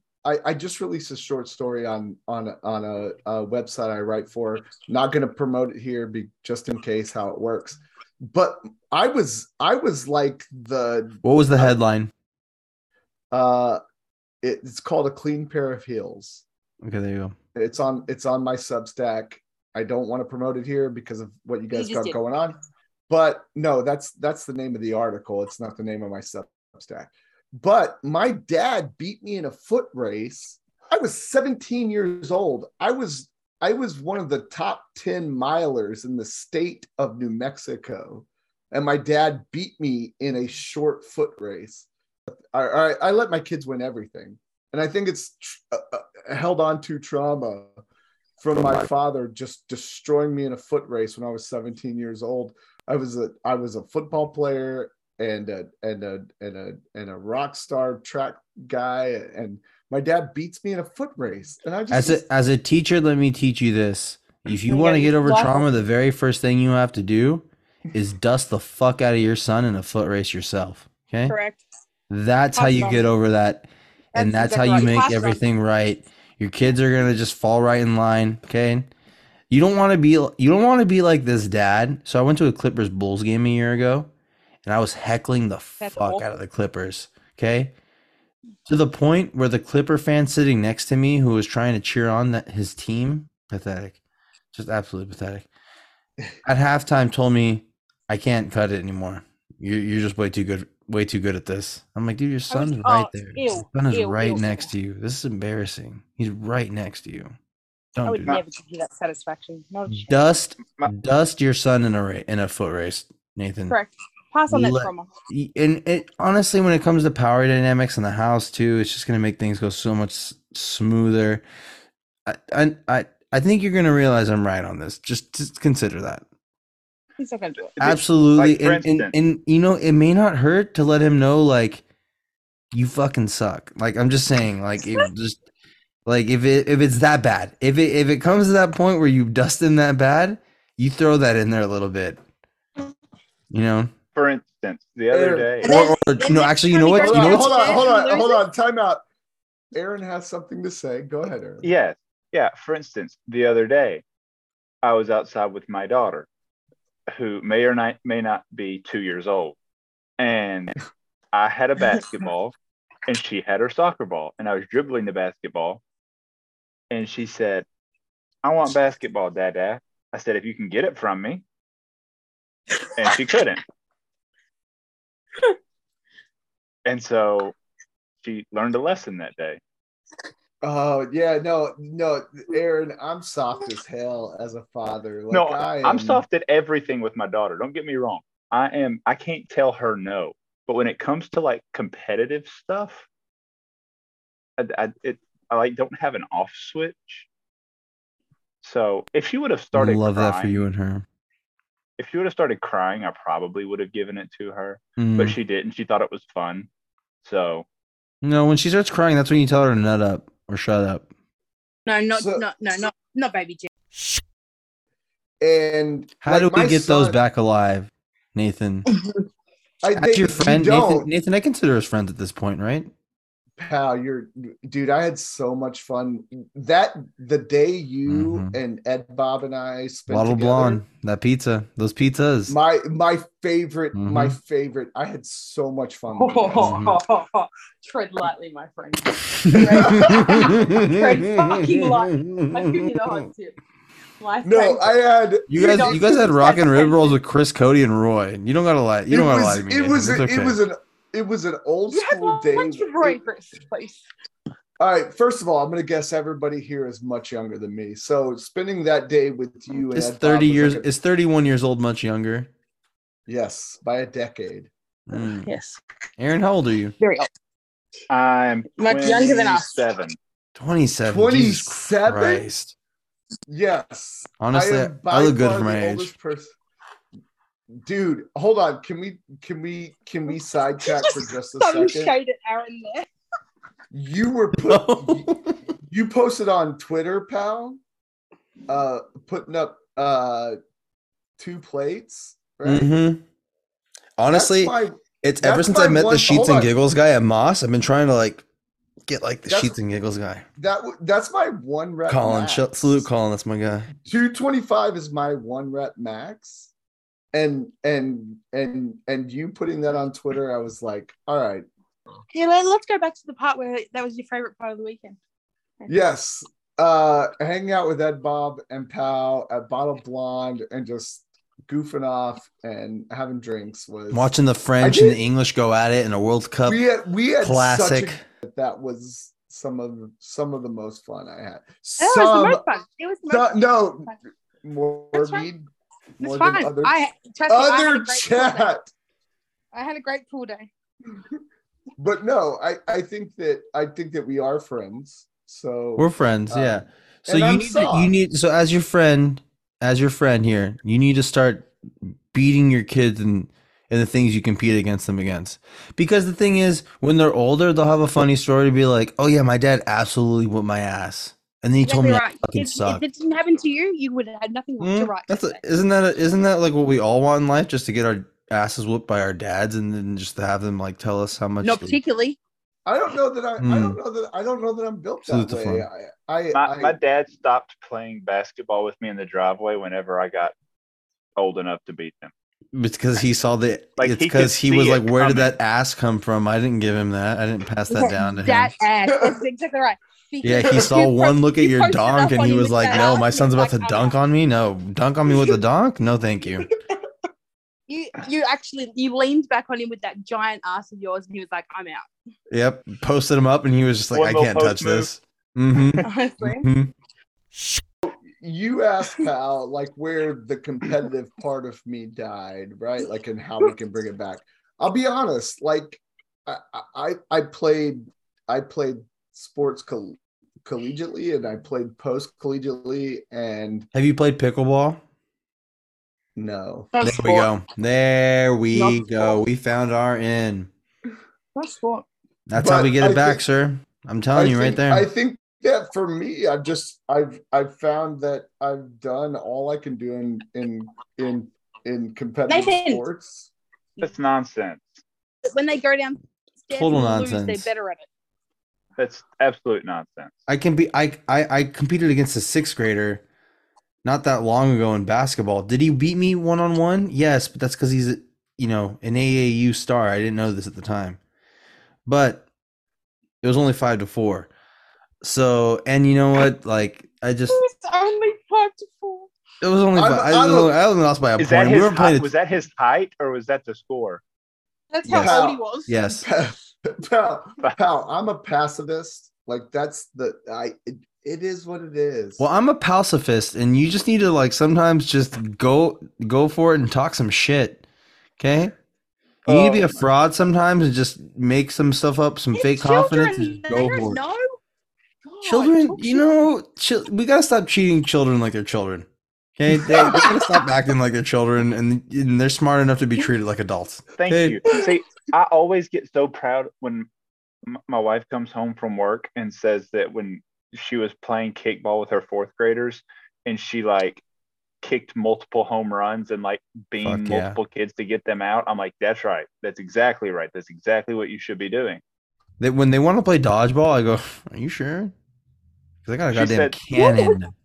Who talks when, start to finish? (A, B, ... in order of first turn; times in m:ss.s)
0:00.2-0:11.7 A
0:11.2-0:12.1 B
0:13.3-0:13.8 A
0:14.4-0:16.4 A
0:16.8-0:17.3 B
0:17.5-0:22.6 A
0:21.7-0:22.2 C
0:23.1-0:47.8 A
0:48.4-1:02.2 A
1:01.9-1:11.3 B
1:04.7-1:05.7 C
1:11.3-1:11.6 C
1:12.1-1:18.9 B
1:12.5-1:13.1 C
1:14.1-1:15.4 C
1:19.5-1:24.1 B
1:24.6-1:27.7 B
1:25.8-1:26.2 C
1:28.7-1:34.0 B
1:34.5-1:35.5 B
1:36.4-1:47.3 B
1:42.5-1:44.7 C
1:48.0-1:48.4 B
1:48.0-1:50.1 C
1:49.9-1:53.7 B
1:53.7-1:55.1 C
1:54.5-2:01.4 B
2:02.2-2:06.2 B
2:07.2-2:07.7 C
2:07.7-2:09.1 D
2:07.8-2:11.8 B
2:12.7-2:15.4 B
2:16.0-2:22.2 B
2:23.5-2:23.9 B
2:24.1-2:25.8 D
2:25.1-2:25.6 A
2:25.6-2:27.9 B
2:25.6-2:28.4 C
2:26.9-2:29.0 A
2:29.7-2:31.7 A
2:31.6-2:34.0 D
2:34.8-2:36.3 D
2:37.1-2:39.6 D
2:40.2-2:40.7 D
2:41.3-2:42.5 D
2:43.1-2:45.8 D
2:46.9-2:47.6 D
2:48.4-2:51.4 D
2:53.0-2:53.6 D
2:56.8-2:57.5 D
2:58.2-2:59.6 D
3:00.6-3:06.2 A
3:05.3-3:13.0 D
3:14.6-3:17.3 D
3:18.6-3:20.6 D
3:19.7-3:21.0 B
3:22.0-3:26.7 D
3:25.0-3:25.4 B
3:27.2-3:27.6 D
3:28.2-3:31.1 B
3:31.8-3:33.7 C
3:32.1-3:32.5 A
3:35.4-3:37.2 A
3:36.2-3:38.9 B
3:39.8-3:41.1 A
3:40.0-3:42.9 B
3:43.6-3:50.8 A
3:48.1-3:48.5 B
3:50.1-3:52.5 B
3:52.5-3:56.8 A
3:53.9-3:54.4 B
3:56.1-4:03.5 C
3:56.6-3:57.0 B
3:59.4-4:03.2 B
3:59.5-4:00.8 A
4:04.2-4:05.0 C
4:04.4-4:06.3 A
4:05.5-4:10.6 B
4:05.5-4:07.2 C
4:09.1-4:13.2 A
4:11.9-4:14.0 C
4:14.8-4:20.9 A
4:19.7-4:22.5 B
4:23.3-4:24.7 A
4:25.1-4:25.5 B
4:25.1-4:25.8 C
4:26.2-4:26.9 B
4:27.0-4:27.3 C
4:28.1-4:30.2 D
4:28.8-4:29.7 C
4:30.6-4:32.7 B
4:31.0-4:32.4 A
4:33.5-4:36.5 A
4:34.4-4:36.1 B
4:37.8-4:42.2 A
4:40.8-4:43.1 C
4:43.9-4:45.3 A
4:44.5-4:45.5 B
4:45.9-4:47.8 A
4:48.7-4:50.6 A
4:51.4-4:52.9 A
4:52.6-4:53.2 B
4:54.2-4:58.4 B
4:54.3-4:56.7 A
4:59.0-5:00.4 B
4:59.5-4:59.8 A
5:00.6-5:03.1 A
5:02.1-5:03.9 B
5:04.0-5:06.7 A
5:07.3-5:11.6 A
5:12.3-5:15.2 C
5:15.9-5:25.2 A
5:24.1-5:26.8 B
5:26.6-5:32.6 A
5:27.4-5:28.2 B
5:32.0-5:34.1 C
5:33.3-5:35.6 A
5:35.1-5:35.5 C
5:36.2-5:37.0 A
5:36.2-5:38.7 C
5:37.5-5:38.9 A
5:39.7-5:40.7 C
5:42.0-5:48.1 A
5:46.0-6:03.0 B
6:01.8-6:05.6 C
6:04.8-6:12.0 B
6:11.6-6:12.4 C
6:12.8-6:17.0 A
6:13.6-6:14.0 B
6:15.2-6:15.9 B
6:16.5-6:20.5 D
6:21.4-6:22.3 D
6:22.7-6:28.7 B
6:24.0-6:25.5 D
6:27.9-6:34.2 C
6:30.4-6:36.7 B
6:37.9-6:42.1 C
6:42.5-6:46.9 B
6:44.1-6:45.1 D
6:46.0-6:46.7 C
6:48.0-7:03.9 A
7:03.9-7:05.0 B
7:06.4-7:06.9 A
7:06.9-7:07.5 C
7:07.0-7:10.7 B
7:08.7-7:09.4 C
7:11.5-7:12.0 C
7:12.5-7:15.1 B
7:12.6-7:13.4 A
7:14.3-7:23.5 A
7:22.5-7:23.0 C
7:24.0-7:25.0 D
7:25.4-7:28.0 C
7:26.7-7:27.7 B
7:29.0-7:30.4 D
7:30.5-7:33.2 B
7:34.0-7:41.2 B
7:42.0-7:42.4 B
7:43.4-7:44.5 B
7:45.2-7:47.6 B
7:47.5-7:49.3 C
7:49.6-7:52.3 B
7:49.9-7:50.7 A
7:51.4-7:54.2 D
7:54.9-7:56.1 C
7:55.0-7:56.2 B
7:55.1-7:55.6 A
7:56.2-8:02.5 A
8:02.4-8:07.8 B
8:08.4-8:08.7 B
8:09.4-8:10.0 D
8:09.4-8:14.2 B
8:12.5-8:14.5 C
8:15.2-8:16.3 C
8:15.4-8:24.6 B
8:24.2-8:27.1 D
8:27.6-8:34.2 D
8:34.8-8:42.0 D
8:37.0-8:37.6 B
8:42.6-8:45.1 B
8:46.0-8:47.5 B
8:46.3-8:46.8 D
8:46.9-8:47.4 C